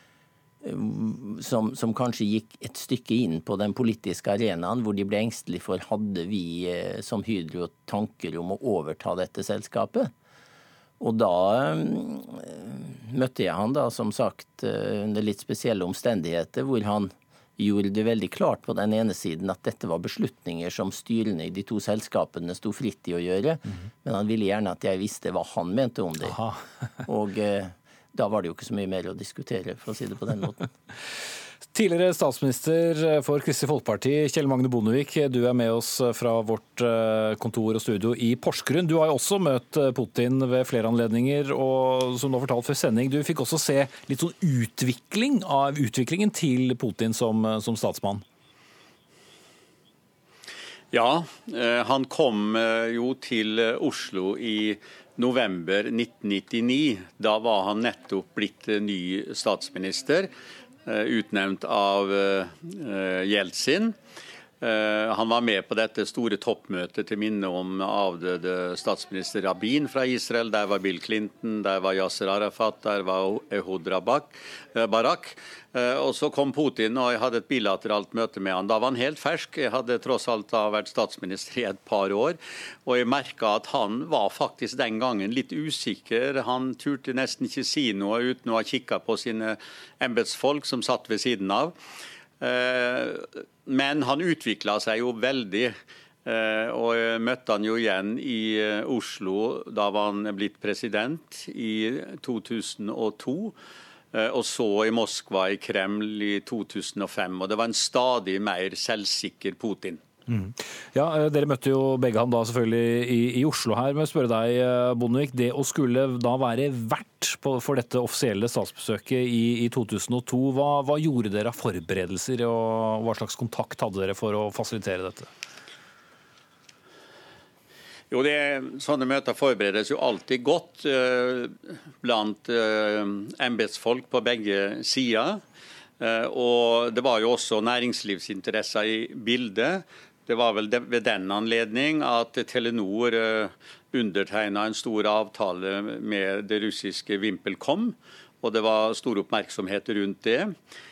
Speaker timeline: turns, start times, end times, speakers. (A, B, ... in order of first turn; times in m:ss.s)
0:00.6-0:10.1 A
0:11.0-0:26.4 A
0:26.3-0:26.6 B
0:27.0-0:30.7 A
0:31.7-0:48.2 B
0:50.9-1:00.3 C
1:00.8-1:04.0 C
1:04.6-1:31.7 C
1:32.4-1:35.7 C
1:36.2-1:43.6 C
1:44.1-1:50.0 C
1:50.3-2:05.3 B
2:08.1-2:15.4 C
2:16.0-2:30.5 C